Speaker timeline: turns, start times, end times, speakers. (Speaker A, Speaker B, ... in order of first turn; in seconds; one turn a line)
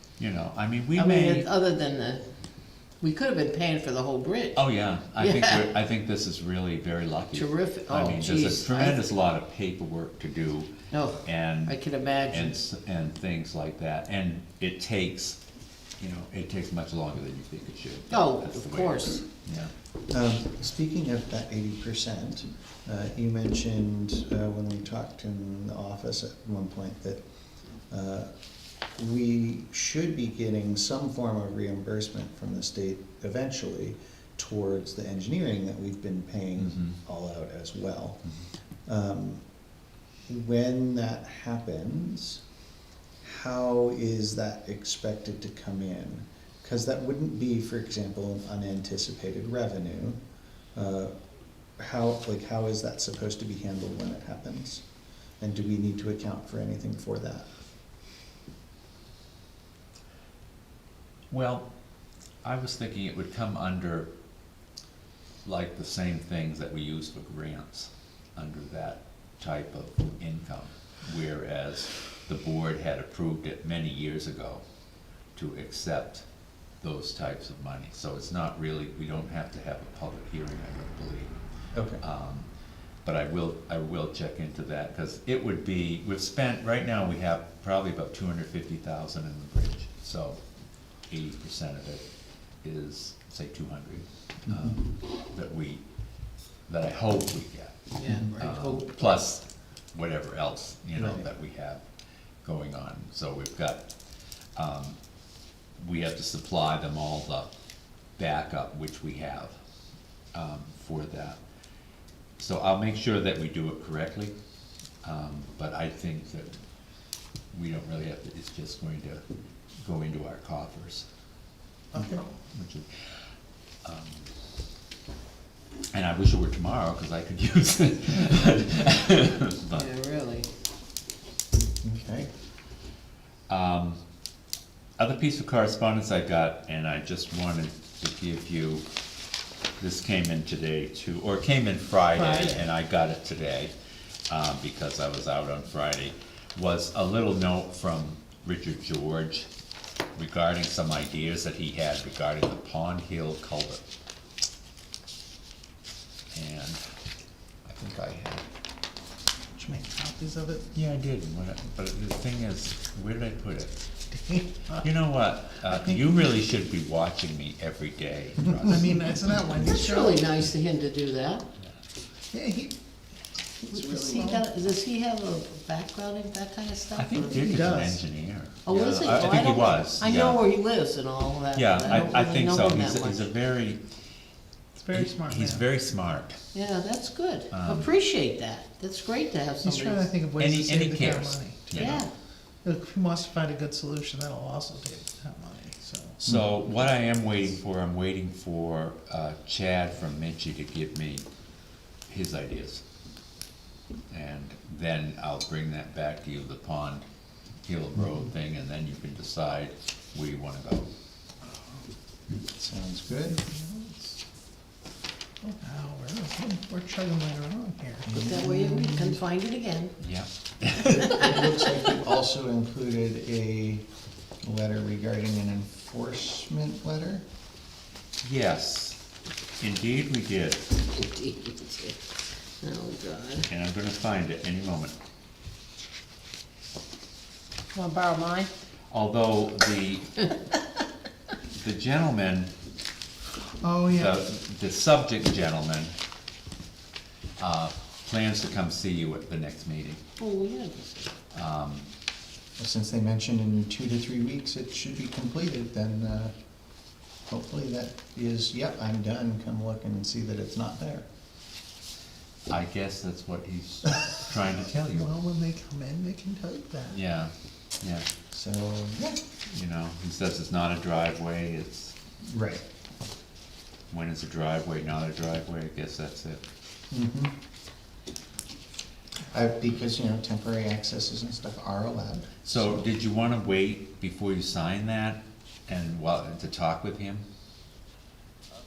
Speaker A: 0.2-1.5
Speaker B: 0.9-2.2
Speaker B: 3.0-4.6
Speaker A: 4.5-10.7
Speaker B: 5.2-5.7
Speaker B: 7.3-9.1
Speaker B: 10.9-12.6
Speaker A: 11.2-15.4
Speaker A: 16.0-19.7
Speaker B: 18.1-19.2
Speaker C: 20.1-27.2
Speaker C: 27.9-28.3
Speaker C: 28.9-38.2
Speaker A: 36.6-37.0
Speaker C: 38.9-39.4
Speaker C: 40.3-42.4
Speaker C: 43.2-50.2
Speaker C: 50.7-51.1
Speaker C: 51.8-54.8
Speaker C: 55.4-57.5
Speaker A: 61.3-61.7
Speaker A: 62.4-64.1
Speaker A: 65.4-74.6
Speaker A: 75.3-76.3
Speaker A: 76.8-81.3
Speaker C: 81.7-82.0
Speaker A: 82.0-82.5
Speaker A: 83.0-90.4
Speaker A: 91.0-92.0
Speaker A: 92.6-95.8
Speaker C: 94.5-94.8
Speaker A: 96.7-101.8
Speaker B: 97.9-99.2
Speaker C: 101.0-101.3
Speaker A: 102.4-103.9
Speaker A: 104.5-105.0
Speaker A: 105.8-107.5
Speaker A: 108.2-109.6
Speaker A: 110.3-111.4
Speaker A: 112.4-114.3
Speaker A: 115.0-116.5
Speaker A: 117.5-119.2
Speaker A: 119.8-121.1
Speaker C: 121.9-122.2
Speaker A: 122.5-123.1
Speaker A: 123.8-124.3
Speaker A: 125.9-129.9
Speaker B: 129.7-130.5
Speaker C: 131.8-132.3
Speaker A: 133.5-134.0
Speaker A: 135.0-138.8
Speaker A: 139.8-143.7
Speaker D: 142.2-142.6
Speaker A: 144.3-149.5
Speaker A: 150.1-153.8
Speaker A: 156.3-156.8
Speaker A: 157.7-158.4
Speaker D: 159.5-160.7
Speaker A: 160.7-163.7
Speaker D: 164.1-164.8
Speaker A: 164.7-169.0
Speaker D: 165.7-166.0
Speaker D: 168.5-170.3
Speaker B: 169.6-171.4
Speaker D: 172.3-172.8
Speaker D: 173.6-174.4
Speaker B: 173.7-177.4
Speaker A: 176.9-180.4
Speaker D: 177.3-178.0
Speaker B: 178.6-183.3
Speaker A: 181.5-183.8
Speaker D: 184.8-185.6
Speaker A: 184.9-186.4
Speaker B: 186.5-190.1
Speaker A: 187.5-187.9
Speaker D: 189.6-191.9
Speaker A: 190.4-192.1
Speaker B: 191.7-192.1
Speaker D: 192.6-196.2
Speaker A: 196.2-201.2
Speaker A: 202.1-202.8
Speaker A: 204.1-207.1
Speaker A: 207.6-210.9
Speaker C: 212.5-213.4
Speaker D: 213.3-214.2
Speaker D: 215.4-218.2
Speaker C: 218.1-219.2
Speaker B: 218.1-219.9
Speaker A: 220.0-221.2
Speaker C: 220.8-223.8
Speaker B: 221.0-221.8
Speaker C: 224.4-227.2
Speaker A: 228.2-229.0
Speaker A: 229.6-230.8
Speaker B: 230.9-233.5
Speaker A: 233.5-234.9
Speaker B: 237.7-238.5
Speaker A: 238.9-240.3
Speaker A: 241.5-242.5
Speaker D: 243.6-244.2
Speaker A: 243.9-245.9
Speaker A: 247.4-250.0
Speaker B: 250.2-251.1
Speaker A: 251.3-251.9
Speaker C: 252.6-256.3
Speaker C: 257.3-261.1
Speaker A: 262.5-265.1
Speaker D: 264.9-267.0
Speaker A: 266.9-268.1
Speaker C: 268.3-269.2
Speaker A: 269.5-271.9
Speaker C: 272.2-272.6
Speaker A: 273.9-276.4
Speaker C: 276.9-277.3
Speaker C: 279.3-282.9
Speaker A: 282.4-287.2